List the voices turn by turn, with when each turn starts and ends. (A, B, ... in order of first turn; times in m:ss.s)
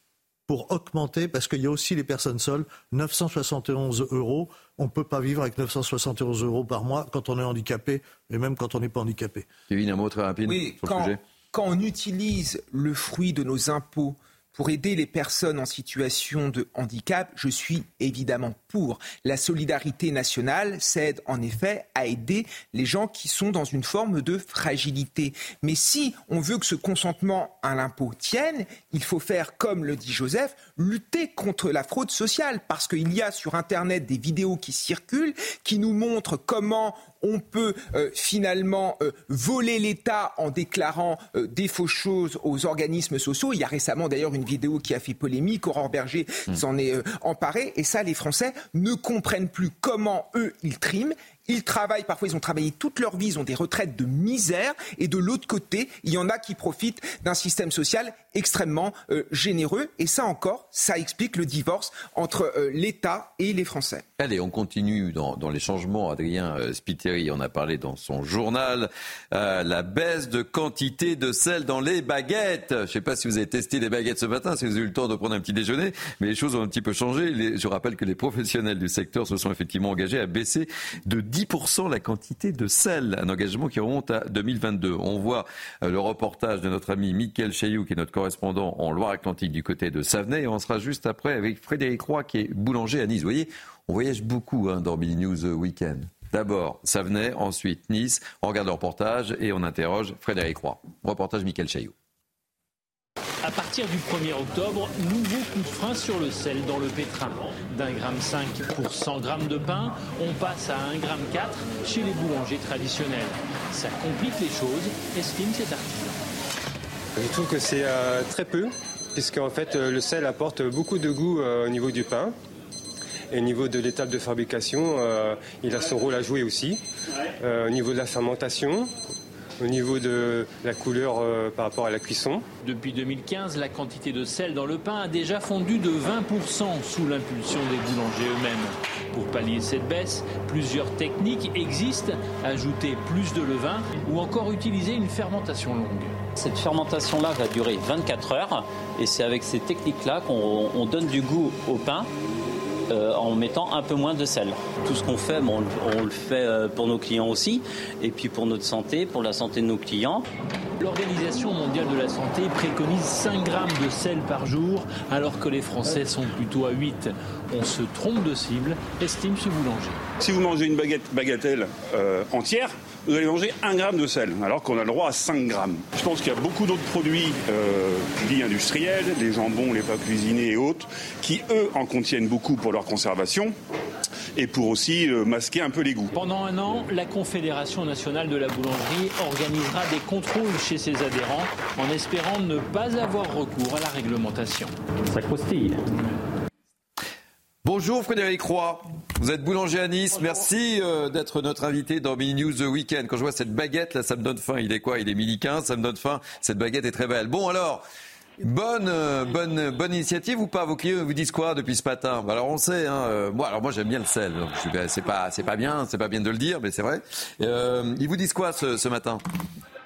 0:00.5-0:09.5 A
0:09.7-0:11.2 B
0:10.5-1:04.0 C
1:04.2-1:41.9 B
1:43.4-1:56.2 D
1:57.2-2:02.4 E
2:03.3-2:06.8 E
2:07.4-2:08.9 E
2:09.6-2:12.5 E
2:12.6-2:26.2 D
2:26.4-2:32.1 F
2:32.9-2:40.3 F
2:40.8-2:50.0 D
2:50.2-3:03.5 G
3:04.4-3:06.1 G
3:06.1-3:14.7 D
3:17.6-3:27.8 B
3:28.4-3:39.2 B